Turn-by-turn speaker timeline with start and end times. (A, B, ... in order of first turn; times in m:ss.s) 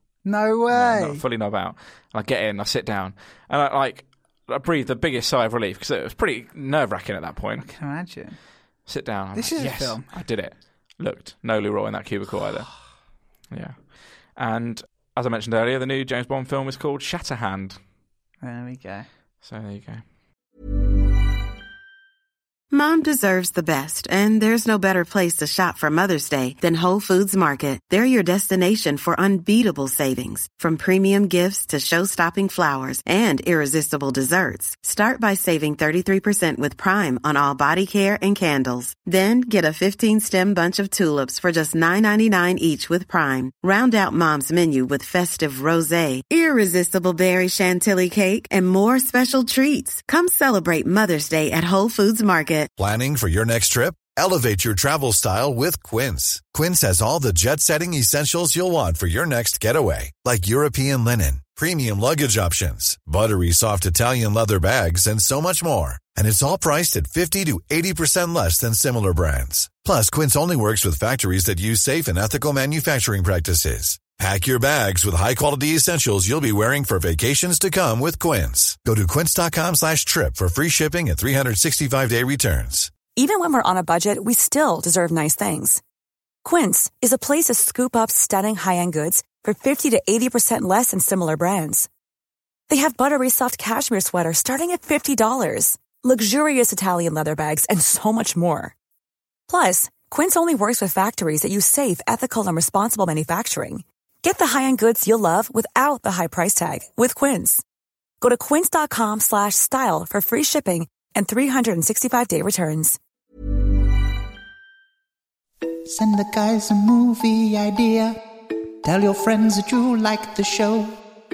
0:00.2-0:01.2 A
0:00.7-0:07.7 B
0:07.6-0:08.4 A
0:08.9-0:12.8 B
0:09.4-0:10.1 A
0:13.5-0:17.8 B
0:18.4-0:19.1 A
0:19.4-0:20.0 B
0:22.7-0:52.7 C
0:52.8-1:22.9 D
1:23.1-1:25.8 E
1:26.4-1:31.9 E
1:32.7-1:38.8 E
1:39.5-1:47.6 E
1:48.2-1:53.0 E
1:55.9-1:58.2 F
1:58.8-2:01.0 F